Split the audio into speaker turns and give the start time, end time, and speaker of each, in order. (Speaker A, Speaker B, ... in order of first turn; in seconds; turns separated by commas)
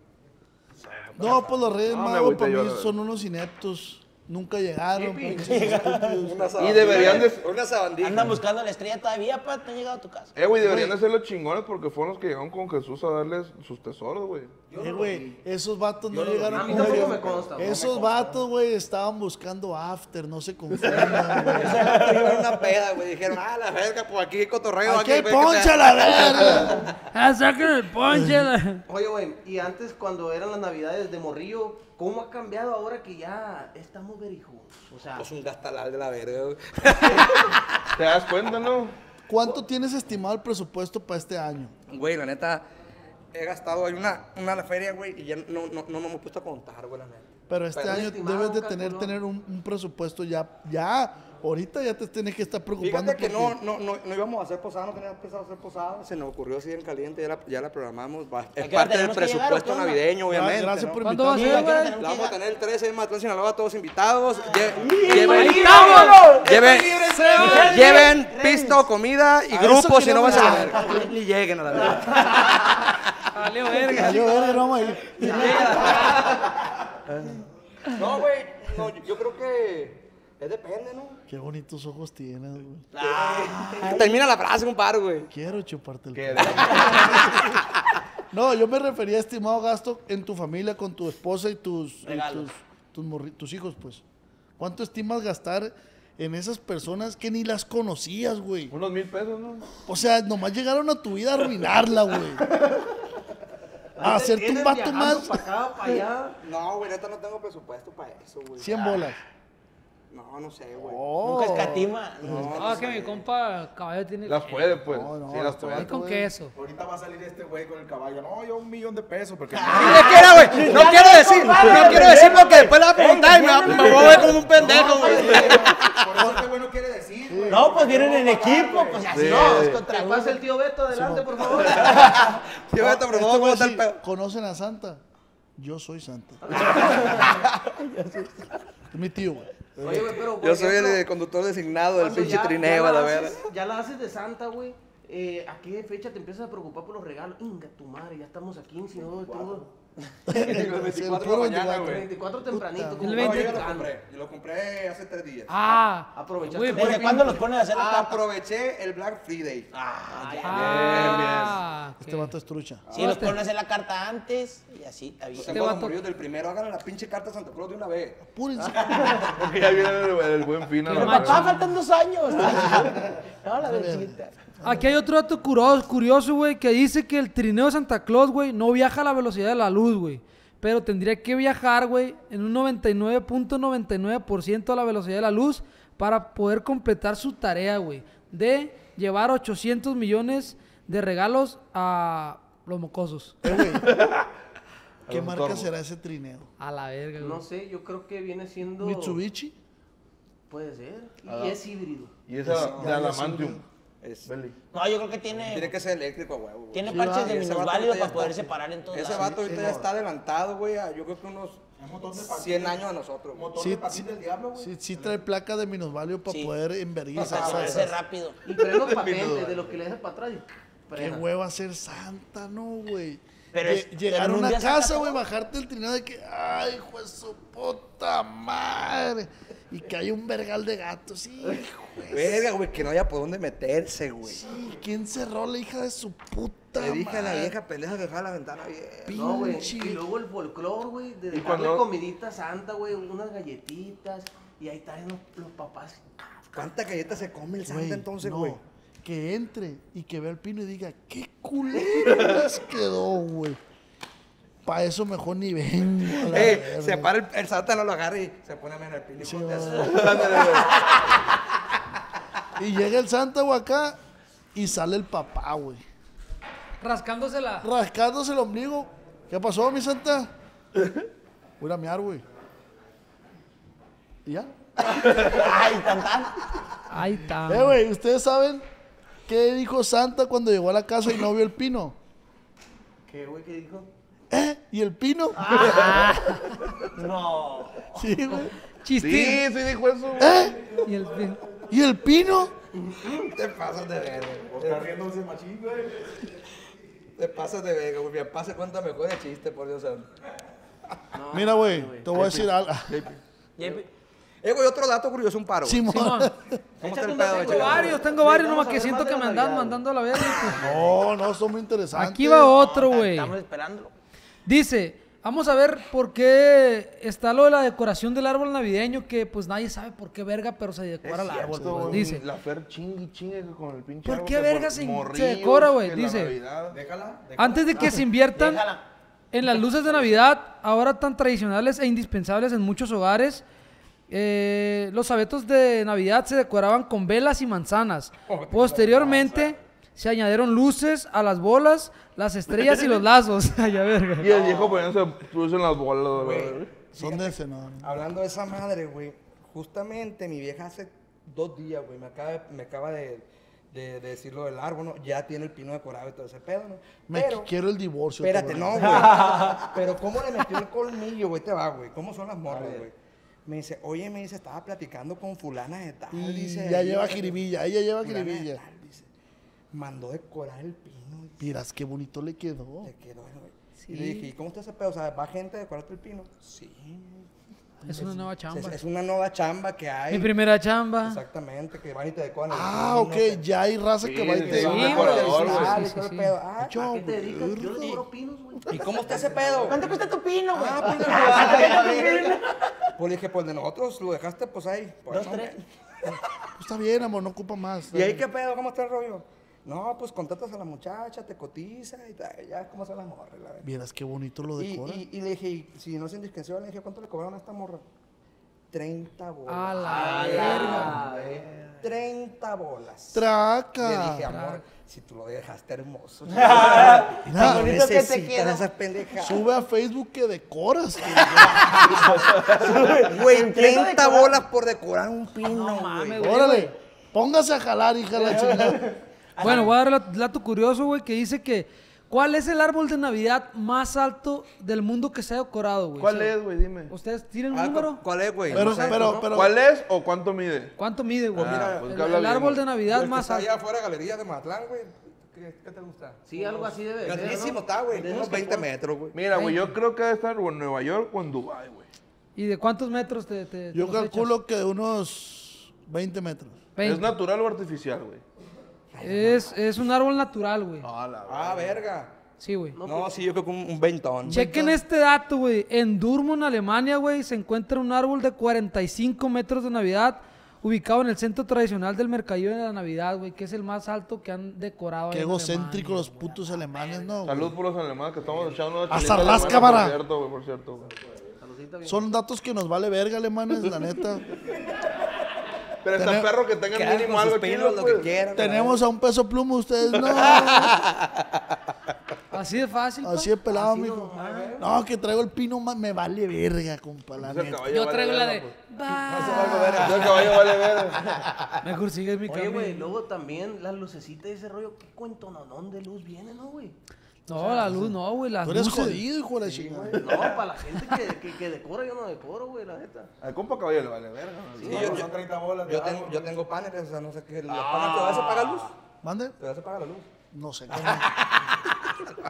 Speaker A: 0.8-1.6, Speaker B: 1.2-7.1, Speaker C: 1.9-2.9, Speaker A: 5.0-8.4, Speaker D: 5.3-6.4, Speaker E: 6.5-6.8, Speaker C: 6.6-7.5, Speaker D: 8.0-10.3, Speaker C: 10.3-14.5, Speaker B: 10.6-10.9, Speaker A: 14.7-15.3, Speaker E: 14.7-15.1, Speaker B: 14.8-22.0, Speaker A: 16.1-18.2, Speaker F: 16.4-18.2, Speaker A: 20.9-26.7, Speaker D: 21.6-22.7, Speaker B: 24.8-26.8, Speaker G: 27.1-28.8, Speaker B: 28.1-28.5, Speaker F: 28.9-35.3, Speaker A: 35.1-37.6, Speaker C: 38.0-39.0, Speaker B: 39.3-41.7, Speaker A: 41.9-42.6, Speaker A: 43.3-48.0, Speaker B: 47.5-53.6, Speaker F: 47.8-49.2, Speaker A: 52.8-61.0, Speaker D: 58.6-60.0, Speaker B: 60.3-61.9, Speaker G: 61.0-61.9, Speaker D: 61.3-62.4, Speaker A: 62.0-72.5, Speaker D: 64.4-68.8, Speaker F: 65.1-65.8, Speaker G: 65.2-66.2, Speaker E: 66.5-66.8, Speaker B: 69.5-71.0, Speaker D: 70.3-71.1, Speaker G: 73.3-74.6, Speaker B: 73.9-75.8, Speaker A: 75.2-76.4, Speaker G: 75.2-75.7, Speaker D: 75.3-76.2, Speaker A: 77.9-81.2, Speaker B: 81.3-82.8, Speaker D: 82.9-84.2, Speaker A: 83.0-85.3, Speaker B: 85.3-87.4, Speaker C: 86.2-86.8, Speaker A: 86.3-87.2, Speaker D: 86.6-87.4, Speaker B: 88.3-94.0, Speaker D: 92.0-92.5, Speaker B: 94.6-98.7, Speaker C: 98.7-99.7, Speaker B: 99.8-102.4, Speaker F: 104.0-106.4, Speaker B: 104.0-105.4, Speaker A: 106.4-109.0, Speaker B: 108.6-109.2, Speaker A: 110.1-111.0, Speaker B: 110.8-112.5, Speaker D: 111.2-113.0, Speaker A: 112.2-113.2, Speaker G: 112.6-114.7, Speaker C: 114.2-115.9, Speaker B: 114.9-116.3, Speaker G: 115.7-116.5, Speaker E: 116.5-120.4, Speaker D: 119.6-125.5, Speaker A: 119.7-125.9, Speaker F: 121.7-122.0, Speaker C: 123.7-124.2, Speaker F: 123.7-125.7, Speaker B: 124.5-125.5, Speaker E: 125.1-129.1, Speaker B: 127.3-127.7, Speaker D: 127.5-130.4, Speaker A: 128.0-128.4, Speaker C: 129.1-129.8, Speaker F: 129.2-132.3, Speaker B: 130.9-131.8, Speaker A: 131.8-134.0, Speaker B: 132.8-135.0, Speaker B: 135.6-136.8, Speaker F: 136.4-137.4, Speaker B: 138.9-140.1, Speaker F: 139.8-141.0, Speaker A: 140.4-143.5, Speaker F: 141.9-149.7, Speaker E: 149.3-149.6, Speaker B: 150.3-153.0, Speaker A: 150.4-152.1, Speaker C: 150.5-151.7, Speaker F: 151.8-153.9, Speaker G: 153.0-153.6, Speaker A: 153.0-155.7, Speaker G: 155.5-157.1, Speaker F: 156.1-157.4, Speaker A: 156.7-161.5, Speaker D: 156.8-158.2, Speaker D: 159.7-161.1, Speaker F: 160.1-161.0, Speaker G: 160.4-162.3, Speaker C: 160.7-161.5, Speaker B: 162.0-162.8, Speaker G: 162.9-163.4, Speaker D: 162.9-165.8, Speaker G: 165.3-165.9, Speaker A: 165.3-168.2, Speaker B: 168.3-169.2, Speaker C: 169.2-171.5, Speaker G: 170.8-171.6, Speaker D: 170.9-174.3, Speaker B: 172.6-172.9, Speaker B: 173.6-175.0, Speaker G: 174.6-193.4, Speaker B: 193.4-193.9, Speaker C: 193.8-194.2, Speaker C: 195.1-195.7, Speaker B: 195.1-196.5, Speaker G: 196.6-197.4, Speaker F: 197.2-199.2, Speaker B: 198.8-199.6, Speaker F: 200.5-202.1, Speaker C: 201.2-201.6, Speaker C: 202.2-203.6, Speaker B: 202.4-203.6, Speaker A: 202.5-203.0, Speaker A: 204.0-204.3, Speaker C: 204.2-204.6, Speaker D: 204.7-205.8, Speaker A: 205.4-211.6, Speaker D: 206.7-209.8, Speaker B: 206.9-207.4, Speaker B: 209.1-209.9, Speaker E: 211.8-215.2, Speaker A: 212.1-213.7, Speaker B: 213.6-217.9, Speaker D: 216.2-216.5, Speaker A: 217.1-217.9, Speaker D: 217.2-218.4, Speaker F: 218.4-221.2, Speaker C: 218.6-219.5, Speaker B: 220.9-232.5, Speaker D: 223.5-225.2, Speaker A: 232.1-234.4, Speaker B: 234.2-237.5, Speaker A: 236.8-239.5, Speaker B: 239.1-240.0, Speaker F: 239.1-246.7, Speaker C: 241.3-241.8, Speaker A: 246.5-248.6, Speaker B: 247.6-253.6, Speaker B: 254.6-257.1, Speaker A: 256.2-260.8, Speaker B: 259.2-260.3, Speaker C: 259.8-260.7, Speaker B: 262.6-264.0, Speaker B: 264.5-265.8, Speaker G: 266.8-267.7, Speaker B: 267.6-270.3, Speaker B: 271.6-272.2, Speaker B: 274.2-274.5, Speaker D: 274.9-276.5, Speaker G: 276.9-277.8, Speaker B: 277.4-278.6, Speaker B: 279.3-281.9, Speaker F: 283.1-283.9, Speaker B: 284.3-286.0, Speaker D: 285.4-286.1, Speaker G: 285.7-286.4, Speaker D: 286.9-288.1, Speaker B: 287.9-288.5, Speaker G: 288.8-289.4, Speaker C: 289.0-290.4, Speaker B: 290.2-290.6, Speaker G: 290.8-291.4, Speaker B: 291.7-292.5, Speaker F: 292.8-293.3, Speaker A: 293.1-294.9, Speaker E: 294.5-296.2, Speaker A: 297.1-300.1, Speaker F: 301.1-302.1, Speaker B: 301.3-302.9, Speaker C: 302.1-303.1, Speaker D: 303.6-303.8, Speaker A: 304.4-305.9, Speaker B: 305.6-306.6, Speaker G: 305.9-306.3, Speaker F: 306.8-309.8, Speaker A: 306.8-308.1, Speaker G: 307.4-310.6, Speaker B: 310.6-312.6, Speaker G: 311.9-313.3, Speaker D: 312.5-313.9, Speaker G: 314.4-322.2, Speaker C: 321.1-326.8, Speaker A: 321.3-321.6, Speaker B: 321.4-322.1, Speaker G: 324.0-326.3, Speaker A: 326.7-327.9, Speaker G: 327.4-328.6, Speaker D: 328.3-328.8, Speaker G: 329.3-333.4, Speaker G: 334.1-344.3, Speaker A: 338.3-339.6, Speaker C: 344.2-346.7, Speaker A: 344.2-344.9, Speaker A: 346.1-357.5, Speaker B: 346.9-347.9, Speaker B: 357.1-359.1, Speaker A: 358.2-362.9, Speaker F: 358.9-359.5, Speaker A: 363.4-367.4, Speaker B: 366.1-368.6, Speaker A: 368.0-369.1, Speaker A: 369.7-371.5, Speaker B: 371.4-372.9, Speaker A: 372.8-377.2, Speaker G: 373.8-374.3, Speaker G: 377.9-378.8, Speaker A: 378.5-380.3, Speaker G: 380.1-381.2, Speaker A: 381.0-383.4, Speaker B: 382.5-385.2, Speaker C: 384.0-385.8, Speaker F: 384.4-385.8, Speaker G: 384.6-386.3, Speaker A: 385.0-386.8, Speaker B: 386.6-388.0, Speaker F: 386.8-390.0, Speaker A: 388.7-389.9, Speaker D: 389.7-392.4, Speaker A: 390.6-392.2, Speaker F: 390.6-392.3, Speaker A: 393.0-396.1, Speaker D: 395.1-395.5, Speaker B: 396.6-398.2, Speaker A: 397.9-403.7, Speaker B: 403.6-405.0, Speaker A: 404.6-407.8, Speaker A: 408.7-411.2, Speaker G: 409.5-411.0, Speaker F: 409.8-411.4, Speaker D: 409.9-411.1, Speaker A: 411.8-413.2, Speaker B: 413.1-414.3, Speaker A: 413.8-419.5, Speaker G: 414.3-414.6, Speaker D: 416.3-418.6, Speaker B: 417.2-418.0, Speaker B: 419.2-421.9, Speaker D: 421.6-424.3, Speaker A: 422.3-426.2, Speaker G: 425.4-426.7, Speaker B: 426.2-428.9, Speaker F: 428.1-429.5, Speaker D: 429.4-429.7, Speaker G: 429.4-436.3, Speaker C: 436.0-436.9, Speaker G: 436.9-438.0, Speaker A: 437.5-439.3, Speaker B: 438.5-439.5, Speaker C: 438.6-440.8, Speaker G: 440.8-443.5, Speaker A: 441.3-441.9, Speaker C: 441.3-442.6, Speaker A: 442.9-449.1, Speaker F: 446.2-448.7, Speaker C: 449.1-451.9, Speaker G: 449.3-449.7, Speaker G: 452.4-454.3, Speaker B: 453.7-456.6, Speaker G: 456.8-457.1, Speaker C: 456.8-458.2, Speaker A: 458.9-459.6, Speaker G: 459.0-460.9, Speaker C: 460.8-461.7, Speaker A: 461.2-462.1, Speaker G: 462.4-462.8, Speaker F: 462.8-463.2, Speaker A: 462.8-464.3, Speaker B: 464.2-464.8, Speaker G: 464.3-476.1, Speaker B: 475.1-477.5, Speaker C: 477.2-480.9, Speaker B: 478.9-480.0, Speaker F: 481.4-482.1, Speaker B: 481.8-484.2, Speaker C: 485.8-488.1, Speaker B: 485.9-486.3, Speaker A: 486.7-488.8, Speaker B: 488.3-490.8, Speaker A: 490.2-491.2, Speaker G: 492.3-493.3, Speaker B: 493.0-497.7, Speaker F: 493.5-494.6, Speaker A: 494.1-494.6, Speaker C: 497.2-498.5, Speaker G: 497.7-500.1, Speaker A: 498.9-500.8, Speaker C: 499.8-501.1, Speaker G: 501.6-502.9, Speaker F: 502.3-506.7, Speaker G: 507.3-509.0, Speaker F: 507.3-507.8, Speaker B: 507.6-507.9, Speaker B: 508.4-510.2, Speaker F: 509.4-513.1, Speaker C: 510.1-510.4, Speaker C: 513.2-515.0, Speaker F: 514.5-515.1, Speaker A: 514.6-518.7, Speaker E: 514.8-516.1, Speaker F: 515.7-516.2, Speaker E: 517.5-517.9, Speaker B: 519.0-519.3, Speaker A: 519.4-520.1, Speaker B: 520.3-521.2, Speaker A: 520.7-522.1